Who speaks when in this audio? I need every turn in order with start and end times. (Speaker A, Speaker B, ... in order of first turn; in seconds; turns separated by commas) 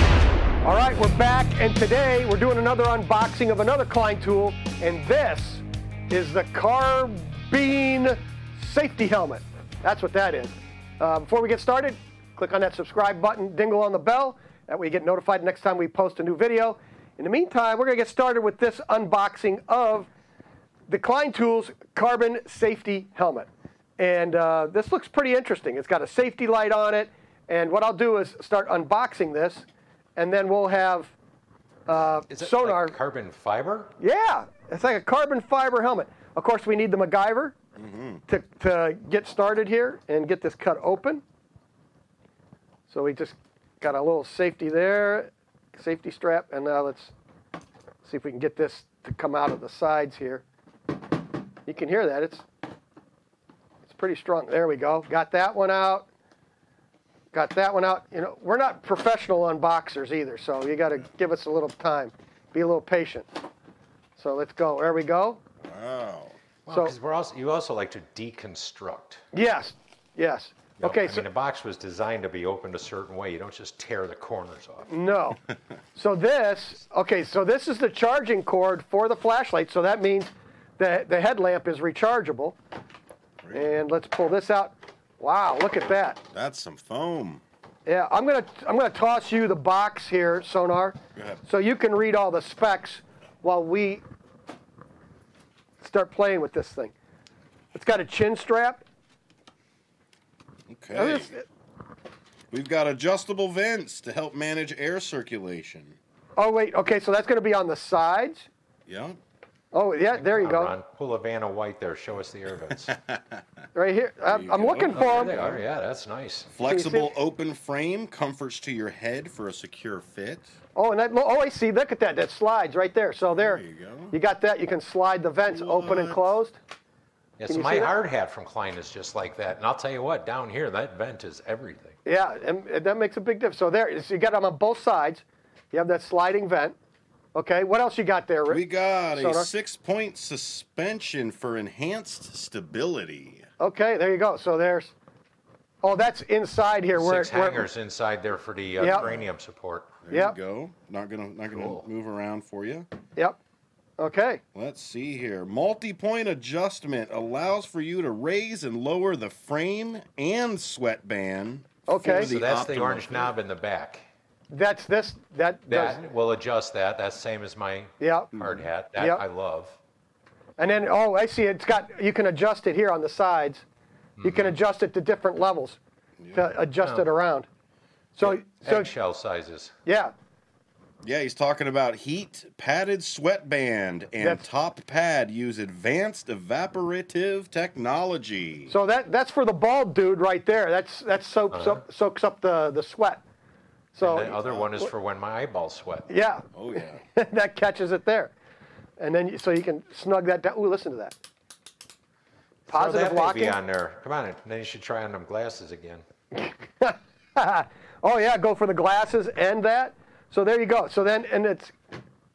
Speaker A: 0.6-20.1, Speaker A: 20.9-31.1, Speaker A: 31.9-33.0, Speaker B: 32.3-33.9, Speaker A: 34.0-37.5, Speaker C: 37.8-38.2, Speaker A: 38.3-41.2, Speaker A: 42.9-47.1, Speaker A: 48.0-50.4, Speaker A: 51.6-52.4, Speaker A: 53.9-56.1, Speaker A: 57.3-63.3, Speaker A: 64.2-65.4, Speaker C: 65.6-66.4, Speaker B: 66.7-69.2, Speaker A: 66.7-66.9, Speaker A: 69.3-71.2, Speaker B: 70.8-74.9, Speaker A: 74.9-75.4, Speaker A: 75.9-82.6, Speaker C: 83.4-83.7, Speaker A: 83.5-86.2, Speaker C: 86.3-87.4, Speaker A: 87.8-94.0, Speaker C: 91.2-91.4, Speaker A: 95.8-96.9, Speaker A: 97.7-98.8, Speaker C: 100.7-101.3, Speaker A: 100.9-101.5, Speaker C: 102.5-106.0, Speaker A: 106.4-108.5, Speaker C: 108.9-109.2, Speaker A: 109.7-110.8, Speaker B: 110.2-112.9, Speaker C: 112.8-113.4, Speaker A: 113.7-115.4, Speaker C: 114.3-115.6, Speaker B: 114.9-116.5, Speaker C: 116.5-120.5, Speaker A: 116.6-117.2, Speaker A: 120.7-126.6, Speaker C: 123.3-124.2, Speaker C: 125.5-126.3, Speaker B: 127.4-131.9, Speaker A: 127.5-127.9, Speaker A: 132.0-136.8, Speaker A: 137.3-139.5, Speaker C: 138.5-143.4, Speaker A: 143.6-144.9, Speaker A: 145.8-147.7, Speaker B: 146.9-149.9, Speaker A: 148.8-149.0, Speaker C: 148.8-149.3, Speaker C: 150.0-152.8, Speaker A: 150.1-150.3, Speaker B: 151.5-151.8, Speaker A: 154.0-154.4, Speaker C: 154.5-163.3, Speaker A: 161.8-162.3, Speaker B: 161.9-164.0, Speaker A: 164.5-166.0, Speaker B: 165.7-169.8, Speaker A: 168.0-168.3, Speaker C: 168.3-168.7, Speaker A: 168.9-169.2, Speaker A: 170.6-173.6, Speaker B: 174.2-174.6, Speaker A: 174.2-175.8, Speaker C: 176.2-176.5, Speaker A: 176.3-177.5, Speaker B: 176.8-177.1, Speaker A: 178.2-178.9, Speaker B: 178.2-179.7, Speaker A: 179.8-180.1, Speaker C: 181.0-188.7, Speaker A: 184.2-184.4, Speaker A: 188.7-193.2, Speaker B: 191.5-191.8, Speaker A: 193.9-194.9, Speaker B: 194.0-196.1, Speaker C: 194.2-194.6, Speaker A: 196.1-198.3, Speaker C: 196.5-197.0, Speaker A: 199.0-201.2, Speaker B: 202.7-206.0, Speaker A: 202.7-203.6, Speaker A: 206.3-211.7